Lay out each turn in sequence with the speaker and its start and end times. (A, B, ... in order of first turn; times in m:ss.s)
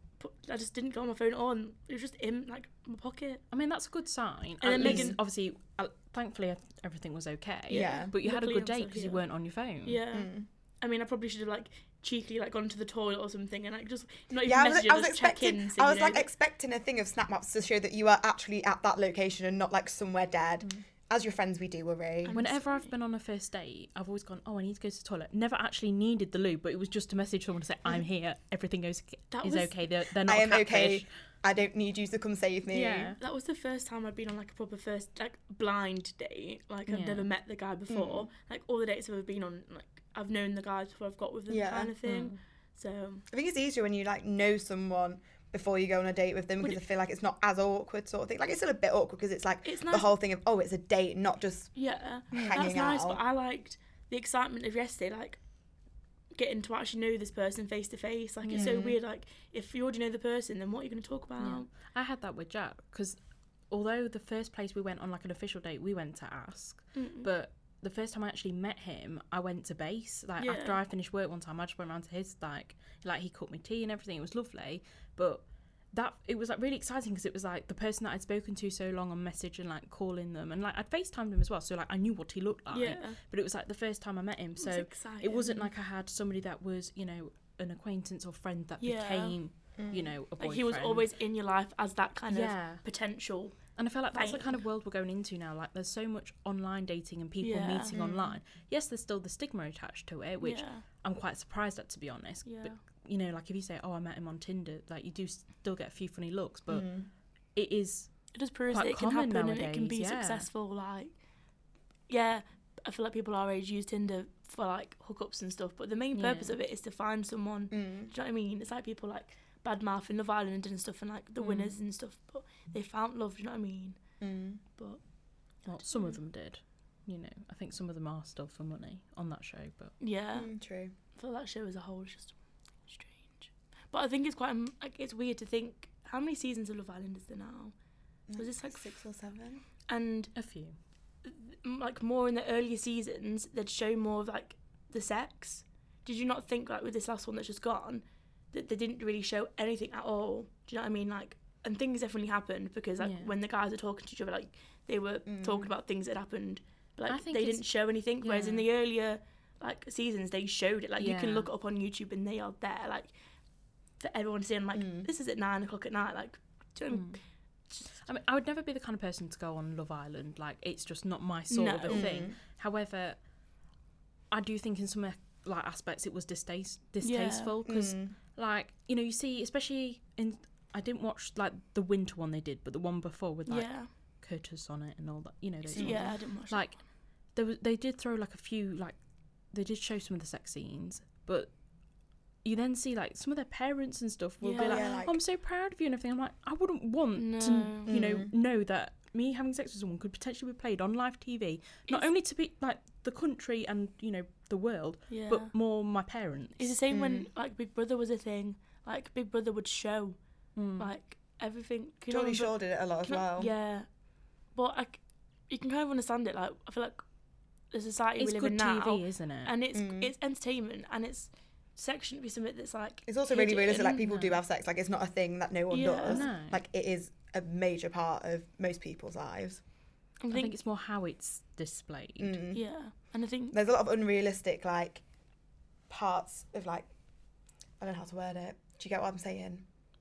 0:00.2-0:03.4 A
0:03.5-0:10.0 B
0:04.6-0:05.2 A
0:04.8-0:05.2 C
0:07.7-0:08.1 C
0:07.7-0:09.2 A
0:09.8-0:16.3 A
0:10.1-0:10.5 C
0:14.4-0:22.4 C
0:22.2-0:22.9 A
0:22.3-0:31.1 B
0:29.3-0:29.7 A
0:30.2-0:33.1 C
0:32.7-0:33.2 B
0:33.2-0:43.2 A
0:36.9-0:37.3 B
0:37.9-0:38.3 C
0:41.5-0:41.9 C
0:42.0-0:42.4 B
0:43.3-0:51.7 C
0:49.6-0:50.1 A
0:51.8-0:55.4 A
0:52.3-0:53.2 C
0:52.3-0:52.6 B
0:56.3-1:01.7 A
0:58.4-0:58.7 B
0:58.5-0:59.0 C
1:01.4-1:03.2 B
1:03.7-1:31.0 B
1:07.0-1:07.3 A
1:10.4-1:10.8 A
1:22.7-1:23.2 A
1:24.6-1:25.7 A
1:28.8-1:29.4 A
1:29.8-1:30.1 C
1:30.4-1:33.6 A
1:32.3-1:32.8 B
1:33.8-1:47.0 B
1:34.1-1:34.6 A
1:37.4-1:38.0 A
1:37.9-1:38.4 C
1:40.4-1:40.8 A
1:42.4-1:42.8 A
1:46.7-1:47.1 C
1:47.6-1:50.5 B
1:48.3-1:51.1 A
1:52.1-2:04.0 A
1:56.2-1:56.5 B
1:57.7-1:58.1 C
2:01.4-2:01.7 B
2:04.2-2:04.6 C
2:05.7-2:10.0 B
2:05.7-2:06.2 A
2:10.0-2:10.5 A
2:10.4-2:10.9 C
2:11.1-2:17.7 A
2:18.3-2:19.6 C
2:18.4-2:19.0 A
2:19.9-2:20.3 A
2:20.4-2:20.8 B
2:21.3-2:43.1 A
2:33.0-2:33.3 B
2:35.3-2:35.7 C
2:37.1-2:37.6 B
2:38.2-2:38.7 B
2:41.0-2:41.5 B
2:44.0-2:47.2 A
2:44.8-2:45.1 C
2:46.9-2:47.2 B
2:47.9-2:53.2 B
2:51.5-2:52.2 A
2:51.9-2:52.4 C
2:54.3-3:06.8 B
2:57.0-2:57.5 A
2:57.6-2:58.1 C
3:03.5-3:03.9 A
3:05.7-3:06.1 C
3:05.7-3:06.7 A
3:07.4-3:09.0 B
3:09.5-3:11.5 B
3:12.4-3:26.8 B
3:14.4-3:15.0 A
3:14.6-3:15.2 C
3:17.2-3:17.9 A
3:17.9-3:18.3 C
3:25.1-3:25.5 A
3:26.6-3:30.2 A
3:26.9-3:27.3 C
3:30.6-3:30.9 B
3:30.8-3:33.9 A
3:32.1-3:33.5 C
3:34.6-3:37.0 A
3:37.7-3:44.1 A
3:38.2-3:39.5 B
3:39.7-3:40.1 C
3:43.1-3:49.6 C
3:44.0-3:44.4 B
3:45.7-3:46.3 A
3:46.1-3:46.6 B
3:50.2-3:50.5 A
3:50.3-3:52.4 B
3:52.2-3:52.6 C
3:52.5-3:53.6 A
3:53.5-3:55.0 C
3:55.9-3:56.9 C
3:57.8-3:59.6 C